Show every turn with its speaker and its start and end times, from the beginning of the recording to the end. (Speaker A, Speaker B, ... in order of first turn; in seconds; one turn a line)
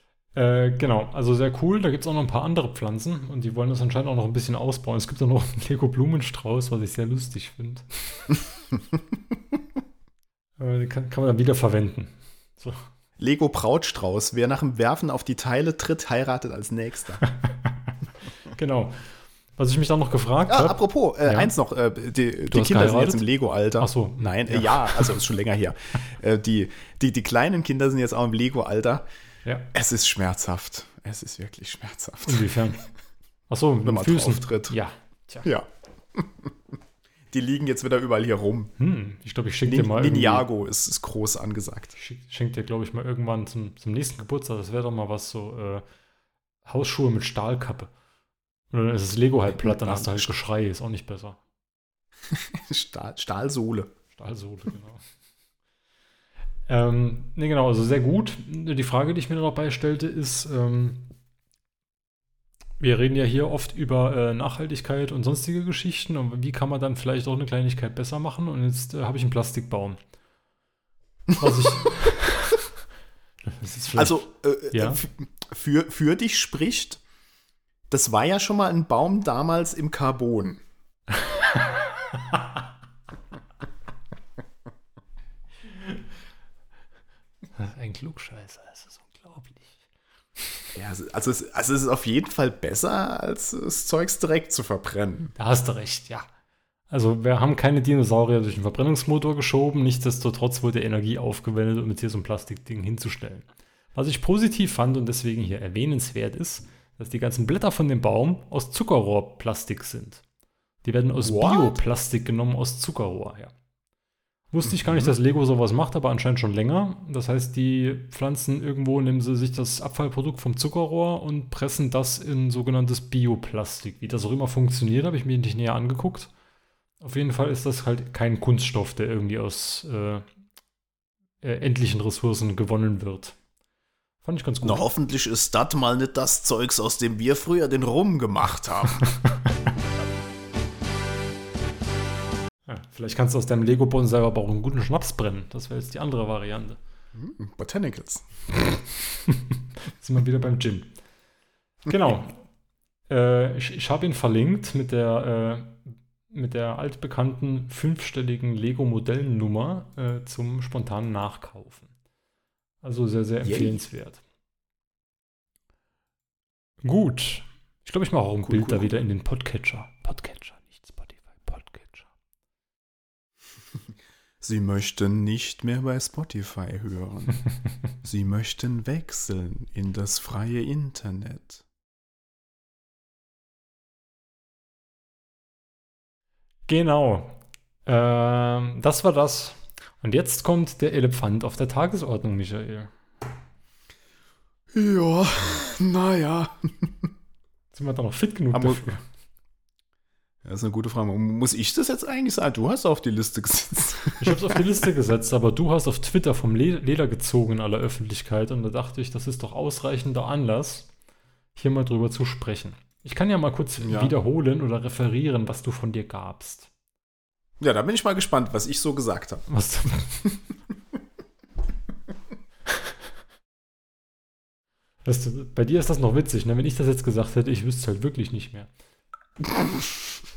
Speaker A: 0.3-8.3
Speaker A: 10.6-12.9
Speaker B: 13.2-17.2
Speaker A: 17.4-17.7
Speaker A: 18.5-19.0
Speaker A: 19.6-21.5
Speaker B: 20.5-29.1
Speaker A: 22.5-23.2
Speaker A: 23.8-25.2
Speaker B: 29.7-32.5
Speaker A: 32.2-32.8
Speaker A: 33.5-35.5
Speaker B: 33.8-34.8
Speaker B: 35.4-36.5
Speaker B: 37.3-38.7
Speaker A: 38.8-40.5
Speaker B: 39.6-41.9
Speaker A: 42.0-45.8
Speaker A: 46.6-47.9
Speaker A: 48.7-51.4
Speaker B: 49.5-50.3
Speaker B: 52.3-53.9
Speaker A: 54.1-55.0
Speaker A: 56.7-61.1
Speaker A: 62.8-70.0
Speaker B: 71.3-71.9
Speaker A: 71.4-72.7
Speaker A: 73.5-75.0
Speaker B: 73.9-77.0
Speaker B: 77.9-80.6
Speaker A: 81.3-81.6
Speaker A: 87.5-89.8
Speaker B: 90.7-95.3
Speaker A: 95.4-96.3
Speaker A: 96.9-110.2
Speaker A: 110.8-113.5
Speaker B: 111.2-111.8
Speaker A: 114.5-126.3
Speaker B: 114.6-115.1
Speaker A: 127.0-130.2
Speaker A: 131.4-133.4
Speaker A: 134.2-134.8
Speaker B: 134.6-139.0
Speaker A: 142.7-146.8
Speaker B: 147.1-148.2
Speaker A: 149.1-150.9
Speaker A: 151.9-152.3
Speaker A: 153.1-161.9
Speaker A: 162.8-164.2
Speaker B: 163.4-163.8
Speaker A: 166.8-172.1
Speaker B: 168.4-168.9
Speaker B: 174.4-177.4
Speaker B: 178.0-181.6
Speaker A: 186.7-192.9
Speaker B: 194.7-197.1
Speaker A: 197.7-199.0
Speaker B: 198.5-198.8
Speaker B: 200.4-204.6
Speaker A: 204.2-210.9
Speaker A: 211.6-216.7
Speaker B: 213.8-214.1
Speaker B: 217.6-219.4
Speaker A: 219.5-220.2
Speaker A: 225.0-228.7
Speaker B: 229.4-230.1